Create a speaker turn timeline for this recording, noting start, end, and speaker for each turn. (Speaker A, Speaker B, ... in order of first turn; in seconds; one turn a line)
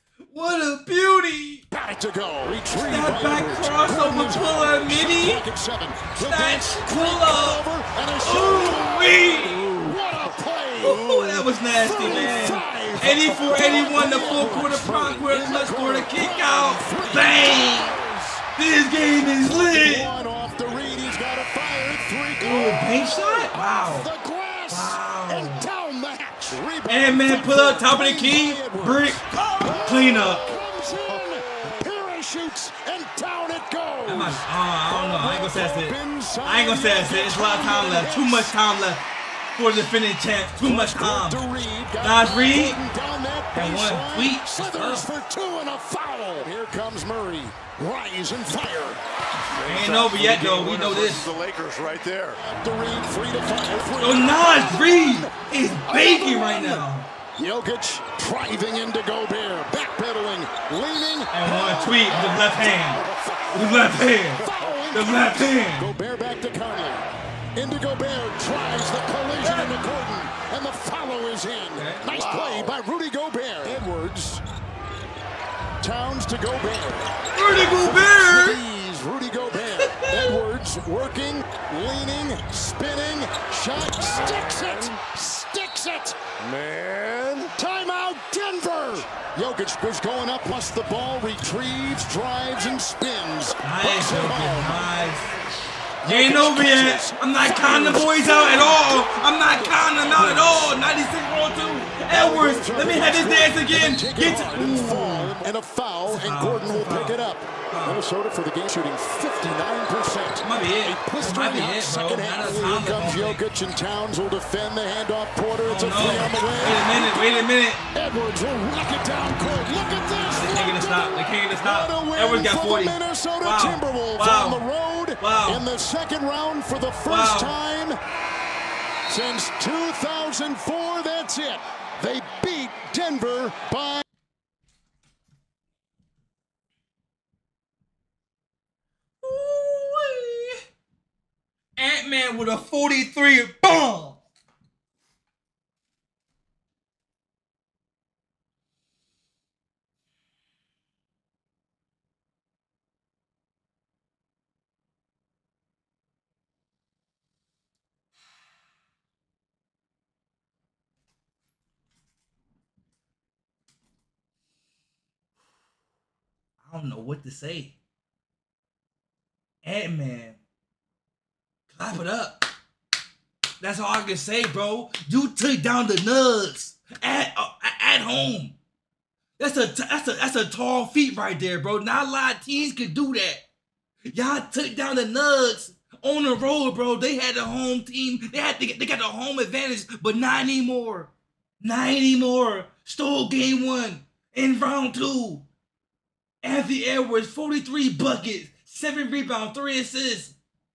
Speaker A: 0.2-1.6
Speaker B: 1.7-18.4
Speaker A: 2.7-5.4
Speaker A: 6.2-7.6
Speaker A: 8.1-9.9
Speaker A: 10.8-18.0
Speaker A: 18.6-20.1
Speaker B: 19.4-38.5
Speaker A: 22.4-24.1
Speaker A: 24.7-25.7
Speaker A: 26.9-30.4
Speaker C: 30.9-31.9
Speaker A: 34.1-39.0
Speaker A: 39.5-41.5
Speaker B: 40.6-49.0
Speaker A: 42.0-42.8
Speaker A: 43.5-45.1
Speaker C: 49.5-52.4
Speaker A: 49.6-51.3
Speaker B: 52.3-55.3
Speaker A: 54.0-57.1
Speaker B: 55.9-56.8
Speaker B: 57.4-67.0
Speaker A: 61.3-65.9
Speaker B: 67.5-74.4
Speaker A: 71.7-72.0
Speaker C: 72.0-72.7
Speaker B: 75.8-77.1
Speaker A: 77.3-78.6
Speaker B: 77.6-86.2
Speaker A: 79.9-80.4
Speaker C: 84.2-84.9
Speaker C: 86.4-87.5
Speaker B: 87.5-94.9
Speaker A: 93.6-95.3
Speaker B: 96.0-100.7
Speaker A: 96.0-105.3
Speaker B: 102.1-128.0
Speaker A: 106.0-107.2
Speaker A: 107.7-108.0
Speaker A: 110.4-113.4
Speaker A: 115.6-117.8
Speaker A: 120.2-124.6
Speaker A: 125.2-125.6
Speaker A: 127.0-127.5
Speaker B: 129.1-134.0
Speaker A: 139.2-140.6
Speaker A: 141.8-144.2
Speaker A: 166.6-167.8
Speaker A: 169.6-170.4
Speaker A: 171.7-172.5
Speaker A: 173.6-178.6
Speaker A: 179.4-183.4
Speaker A: 184.1-195.4
Speaker A: 196.4-200.3